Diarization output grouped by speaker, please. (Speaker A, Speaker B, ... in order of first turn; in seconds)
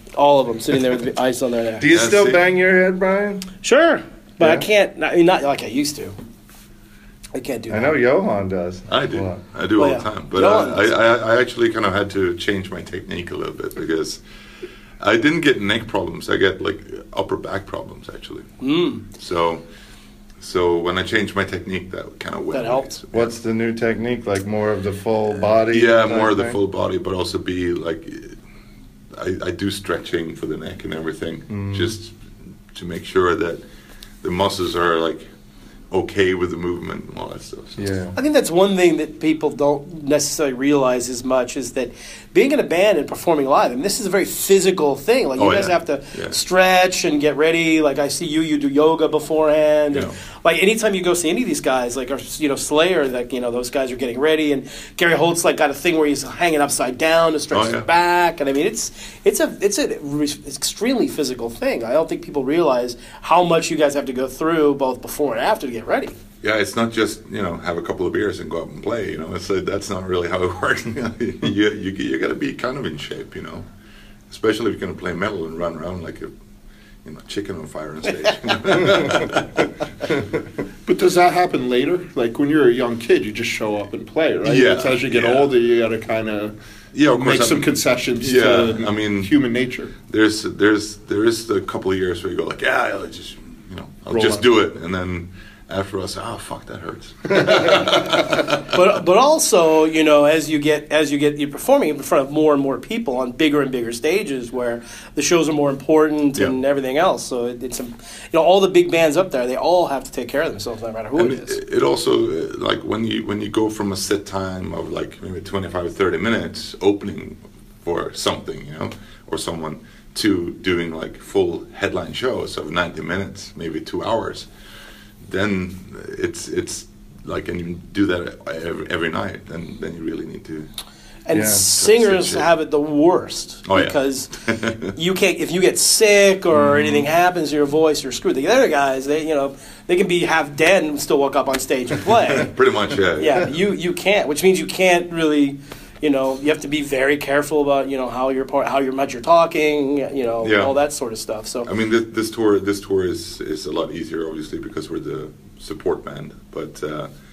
Speaker A: 0.1-1.9, 3.6-6.1, 7.3-7.9, 9.8-10.9, 18.6-19.0, 22.5-22.9, 38.1-66.1, 98.7-111.6, 131.3-134.3, 134.9-142.5, 143.2-151.7
Speaker B: 1.8-3.5, 4.4-4.7, 7.7-9.4, 23.1-26.6, 31.5-31.9, 37.8-38.1, 131.3-131.6, 136.6-137.0
Speaker C: 1.9-2.4, 8.9-14.2, 15.0-18.5, 19.1-19.6, 20.4-23.3, 25.7-28.4, 29.1-32.1, 32.7-33.6, 34.2-35.2, 35.9-37.9, 45.4-46.4, 49.9-50.2, 57.5-57.9, 66.4-73.7, 74.3-76.3, 77.0-79.7, 84.4-85.5, 86.9-89.3, 90.1-98.7, 111.2-124.5, 125.2-130.7, 131.8-132.5, 133.7-134.9, 142.3-143.5, 150.4-150.8, 151.7-157.1
Speaker D: 80.8-86.5, 87.1-89.9